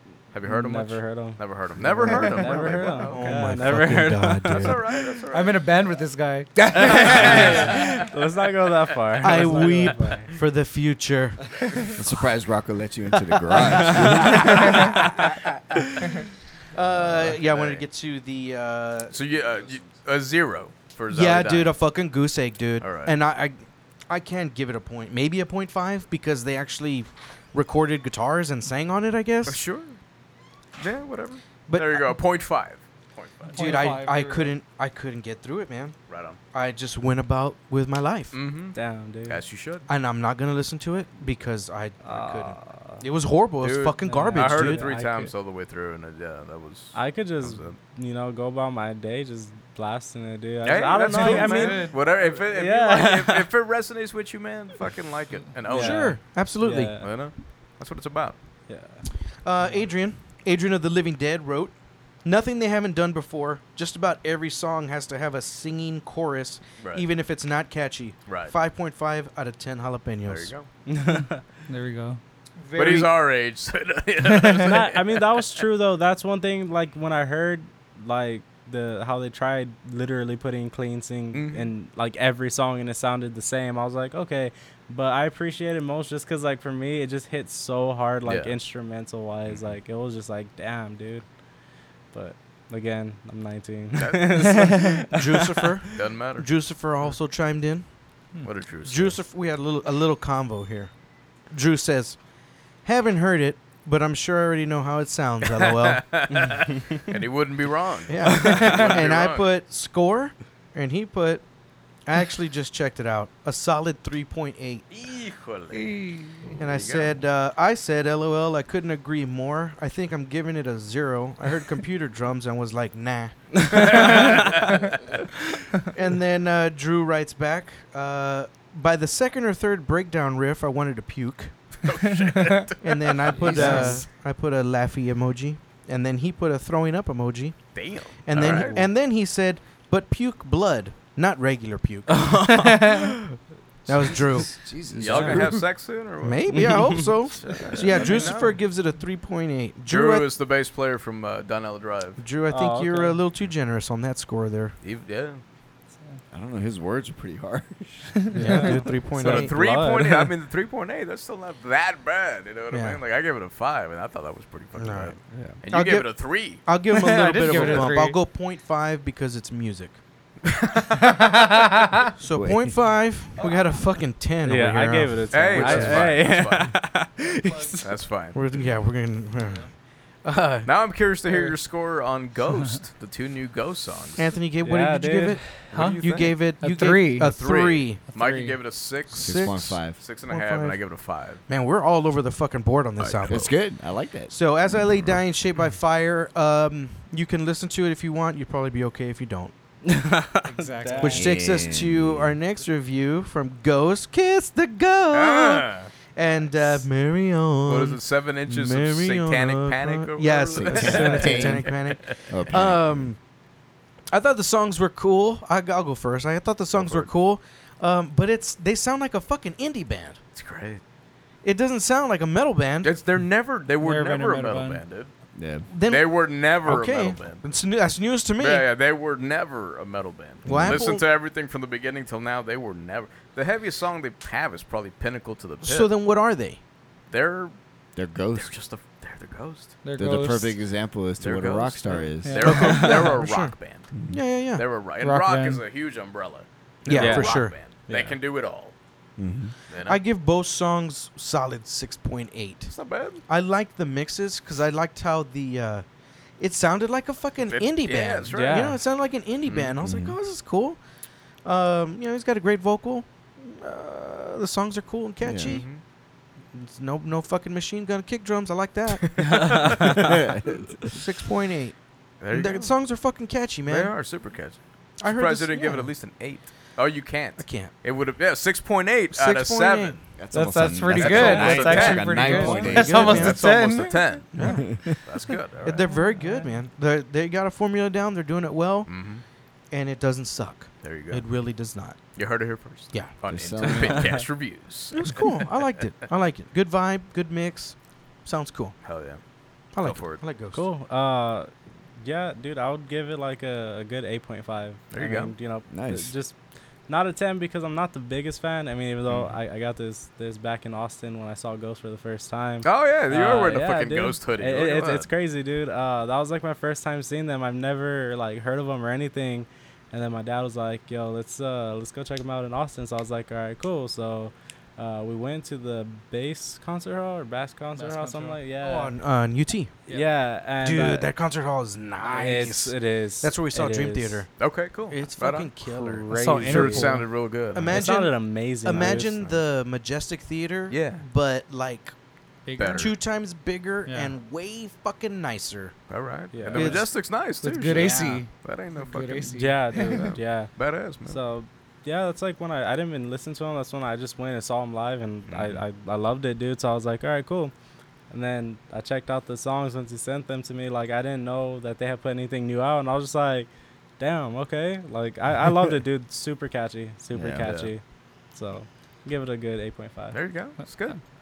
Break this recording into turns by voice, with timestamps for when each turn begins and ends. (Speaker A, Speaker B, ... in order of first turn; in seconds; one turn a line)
Speaker A: 0.3-3.6
Speaker B: 0.5-4.7
Speaker C: 1.9-5.0
Speaker A: 4.5-5.7
Speaker D: 5.3-6.6
Speaker C: 6.6-7.7
Speaker B: 6.7-10.3
Speaker A: 7.0-7.9
Speaker D: 7.1-7.8
Speaker C: 9.2-11.9
Speaker E: 11.9-14.8
Speaker C: 13.2-15.3
Speaker B: 14.6-15.1
Speaker C: 16.7-19.2
Speaker A: 17.2-17.9
Speaker A: 19.1-21.8
Speaker C: 21.1-29.6
Speaker A: 22.8-23.1
Speaker A: 29.4-30.0
Speaker A: 30.8-33.9
Speaker C: 31.7-32.2
Speaker D: 33.5-34.5
Speaker C: 33.5-35.9
Speaker A: 36.1-36.4
Speaker C: 36.5-38.4
Speaker A: 38.3-39.9
Speaker B: 38.7-39.4
Speaker C: 39.9-44.9
Speaker B: 42.0-43.0
Speaker A: 43.6-47.8
Speaker B: 44.0-45.3
Speaker B: 46.9-53.5
Speaker A: 50.6-56.2
Speaker D: 51.0-52.4
Speaker B: 55.7-57.1
Speaker C: 55.7-57.0
Speaker A: 57.0-58.4
Speaker B: 58.7-59.0
Speaker C: 59.4-70.5
Speaker A: 66.8-67.0
Speaker A: 68.3-68.5
Speaker A: 70.2-70.7
Speaker B: 70.9-71.4
Speaker D: 71.1-72.2
Speaker C: 72.7-73.1
Speaker A: 72.7-75.6
Speaker B: 74.6-91.2
Speaker A: 81.3-81.7
Speaker A: 88.2-88.5
Speaker B: 92.1-95.6
Speaker A: 94.0-94.7
Speaker D: 94.4-95.0
Speaker C: 95.0-97.9
Speaker A: 95.9-96.5
Speaker A: 98.4-99.2
Speaker C: 98.8-100.9
Speaker C: 101.5-102.2
Speaker C: 102.8-106.6
Speaker A: 105.5-109.5
Speaker C: 108.1-111.4
Speaker C: 112.0-114.8
Speaker A: 114.9-116.0
Speaker D: 115.7-116.6
Speaker A: 116.6-117.2
Speaker C: 116.6-124.6
Speaker A: 123.7-125.0
Speaker C: 125.9-131.6
Speaker A: 131.8-134.0
Speaker D: 132.1-132.7
Speaker C: 132.8-137.6
Speaker E: 133.4-133.7
Speaker D: 133.5-134.0
Speaker B: 133.6-133.9
Speaker A: 137.7-138.8
Speaker C: 138.2-143.2
Speaker B: 142.1-143.1
Speaker C: 143.9-144.5
Speaker E: 143.9-145.6
Speaker A: 144.9-148.6
Speaker B: 145.1-145.4
Speaker C: 146.2-150.3
Speaker B: 146.5-147.1
Speaker A: 149.8-152.2
Speaker C: 152.2-154.8
Speaker B: 152.5-153.2
Speaker A: 154.8-155.4
Speaker E: 156.3-158.3
Speaker D: 158.3-158.8
Speaker C: 158.3-159.5
Speaker B: 158.4-160.3
Speaker A: 159.1-166.7
Speaker C: 162.7-163.0
Speaker C: 164.8-170.0
Speaker E: 165.3-165.6
Speaker D: 166.9-168.2
Speaker A: 167.5-167.9
Speaker A: 170.4-171.0
Speaker D: 171.0-171.8
Speaker C: 172.2-176.2
Speaker E: 172.3-172.8
Speaker D: 173.4-173.8
Speaker B: 174.4-177.9
Speaker A: 175.3-176.7
Speaker D: 177.3-177.8
Speaker A: 177.8-178.6
Speaker C: 178.3-179.7
Speaker D: 179.4-179.7
Speaker C: 180.2-180.7
Speaker A: 180.6-184.3
Speaker D: 181.3-181.6
Speaker C: 184.2-188.1
Speaker B: 184.6-185.7
Speaker A: 185.7-186.4
Speaker D: 185.7-186.0
Speaker D: 186.6-187.3
Speaker A: 187.2-191.4
Speaker D: 188.1-188.6
Speaker C: 189.1-190.9
Speaker E: 189.2-190.0
Speaker C: 191.5-193.6
Speaker A: 193.0-193.5
Speaker E: 193.3-195.1
Speaker C: 194.3-199.5
Speaker B: 199.8-201.3
Speaker D: 200.4-201.3
Speaker C: 201.0-213.2
Speaker E: 201.0-202.4
Speaker A: 205.1-205.9
Speaker A: 206.6-206.8
Speaker A: 207.7-212.3
Speaker E: 210.6-211.7
Speaker E: 212.3-213.1
Speaker C: 214.1-220.2
Speaker A: 216.7-217.1
Speaker A: 220.3-220.8
Speaker C: 221.4-222.9
Speaker A: 222.8-225.1
Speaker D: 223.8-224.8
Speaker E: 225.3-225.7
Speaker C: 225.7-228.7
Speaker A: 225.8-227.4
Speaker A: 228.4-235.9
Speaker C: 230.4-231.0
Speaker E: 230.5-230.8
Speaker C: 235.6-236.6
Speaker A: 237.1-237.5
Speaker E: 237.9-238.5
Speaker A: 238.3-239.8
Speaker D: 239.8-240.6
Speaker E: 239.9-242.6
Speaker A: 241.2-243.9
Speaker D: 242.2-243.0
Speaker C: 242.4-244.6
Speaker E: 243.9-244.2
Speaker A: 244.6-248.7
Speaker D: 245.0-245.6
Speaker C: 246.8-247.5
Speaker B: 246.9-248.1
Speaker E: 249.2-249.5
Speaker A: 249.7-250.0
Speaker C: 249.8-252.7
Speaker A: 252.7-253.2
Speaker C: 253.3-255.8
Speaker C: 256.4-260.8
Speaker A: 257.4-258.8
Speaker B: 258.3-258.8
Speaker A: 259.4-259.7
Speaker E: 259.8-260.2
Speaker C: 261.4-265.7
Speaker E: 265.2-265.6
Speaker A: 265.4-265.8
Speaker C: 266.5-269.7
Speaker A: 269.0-269.8
Speaker B: 269.4-270.0
Speaker E: 270.0-270.7
Speaker C: 270.9-271.8
Speaker A: 272.2-272.7
Speaker C: 272.3-274.0
Speaker A: 273.7-280.0
Speaker C: 275.0-275.9
Speaker C: 277.4-277.7
Speaker C: 279.1-280.1
Speaker E: 280.2-283.4
Speaker D: 280.3-284.9
Speaker A: 280.9-285.8
Speaker C: 281.7-283.6
Speaker C: 284.3-285.0
Speaker E: 284.5-284.8
Speaker C: 285.6-288.9
Speaker D: 285.9-286.5
Speaker A: 288.9-289.2
Speaker C: 289.7-292.0
Speaker A: 290.8-291.2
Speaker A: 292.1-295.5
Speaker E: 293.3-294.2
Speaker B: 293.7-294.2
Speaker C: 294.9-298.8
Speaker A: 298.8-299.2
Speaker C: 299.7-300.7
Speaker A: 299.8-300.2
Speaker B: 300.5-306.3
Speaker A: 304.9-305.3
Speaker E: 305.7-306.1
Speaker B: 306.9-328.9
Speaker A: 312.6-315.1
Speaker D: 327.7-328.4
Speaker C: 328.6-329.8
Speaker B: 329.9-331.1
Speaker C: 330.5-334.3
Speaker B: 332.0-334.2
Speaker A: 334.4-337.7
Speaker C: 334.9-341.9
Speaker B: 335.7-337.0
Speaker D: 336.1-337.1
Speaker B: 337.7-339.2
Speaker A: 340.7-341.0
Speaker D: 342.4-342.9
Speaker A: 342.6-342.9
Speaker C: 342.7-345.7
Speaker D: 343.9-344.1
Speaker A: 345.9-351.2
Speaker B: 346.3-346.8
Speaker C: 346.5-346.9
Speaker D: 347.4-350.1
Speaker C: 347.6-348.2
Speaker B: 349.3-357.5
Speaker A: 355.3-355.6
Speaker B: 358.1-363.5
Speaker B: 364.0-367.8
Speaker E: 367.1-367.5
Speaker A: 367.4-367.7
Speaker B: 368.3-370.2
Speaker A: 370.1-371.0